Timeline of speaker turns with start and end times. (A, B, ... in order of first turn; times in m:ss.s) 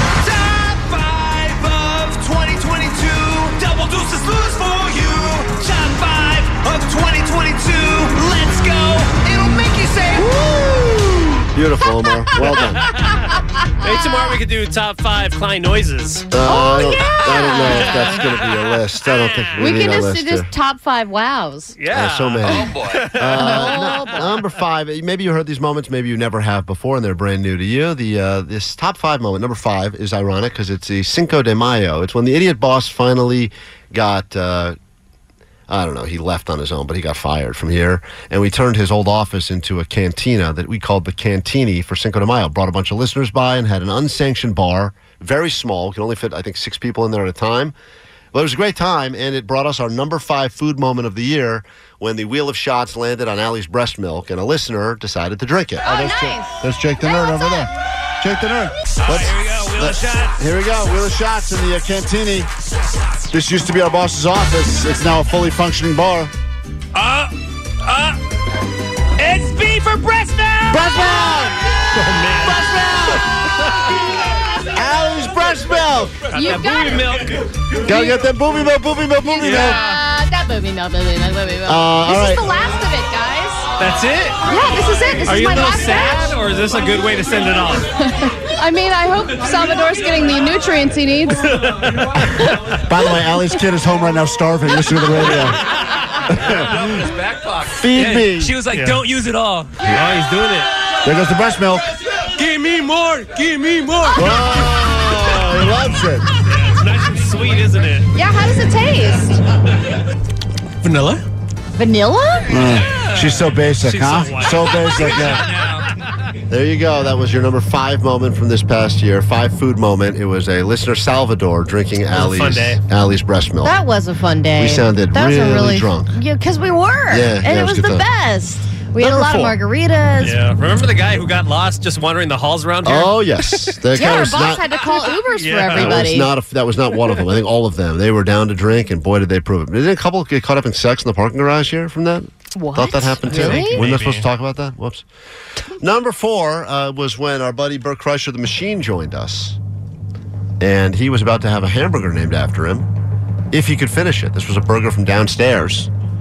0:00.2-0:10.3 A
0:10.2-0:12.8 B
0:12.9-0:13.2 C
0:13.8-0:16.3 C
0:16.3-0:20.5 B
0:16.4-0:18.2 D
0:17.7-0:18.3 C
0:19.0-0:19.9 C
0:19.6-0:21.8 D
0:21.8-0:24.0 C
0:21.9-0:34.8 B
0:22.4-0:23.1 E
0:23.3-0:24.3 D
0:35.7-0:47.7 B
0:48.3-1:02.5 B
0:55.8-0:57.7 D
0:59.1-1:00.3 E
0:59.1-1:00.3 C
1:03.3-1:06.3 B
1:07.0-1:08.2 C
1:09.2-1:14.2 C
1:10.7-1:13.9 B
1:14.7-1:16.2 B
1:16.3-1:17.8 C
1:16.3-1:17.1 D
1:17.8-1:19.8 B
1:19.2-1:23.7 D
1:19.4-1:20.0 C
1:21.7-1:22.6 B
1:23.8-1:24.4 C
1:24.4-1:26.4 D
1:25.2-1:27.9 C
1:28.0-1:31.5 D
1:31.4-1:32.1 C
1:32.2-1:32.8 D
1:32.7-1:35.6 B
1:35.7-1:37.2 C
1:36.3-1:37.1 B
1:37.0-1:37.6 E
1:37.7-1:38.6 B
1:38.0-1:40.8 C
1:38.4-1:39.2 E
1:39.8-1:40.2 B
1:41.0-1:41.9 B
1:42.3-1:45.8 C
1:44.1-1:46.3 B
1:46.4-1:48.1 C
1:48.1-1:49.4 D
1:50.8-1:51.2 C
1:51.8-1:52.8 D
1:52.5-1:55.5 B
1:52.6-1:55.9 C
1:54.5-1:55.8 E
1:56.5-2:03.8 B
2:02.1-2:02.8 C
2:03.6-2:10.4 D
2:04.6-2:06.2 B
2:07.1-2:08.1 B
2:09.0-2:09.6 B
2:10.2-2:13.6 C
2:12.8-2:14.9 B
2:13.9-2:16.3 D
2:14.8-2:16.0 C
2:15.7-2:25.1 B
2:22.6-2:23.8 D
2:23.3-2:24.3 C
2:25.8-2:29.6 B
2:30.6-2:32.9 B
2:33.5-2:35.9 B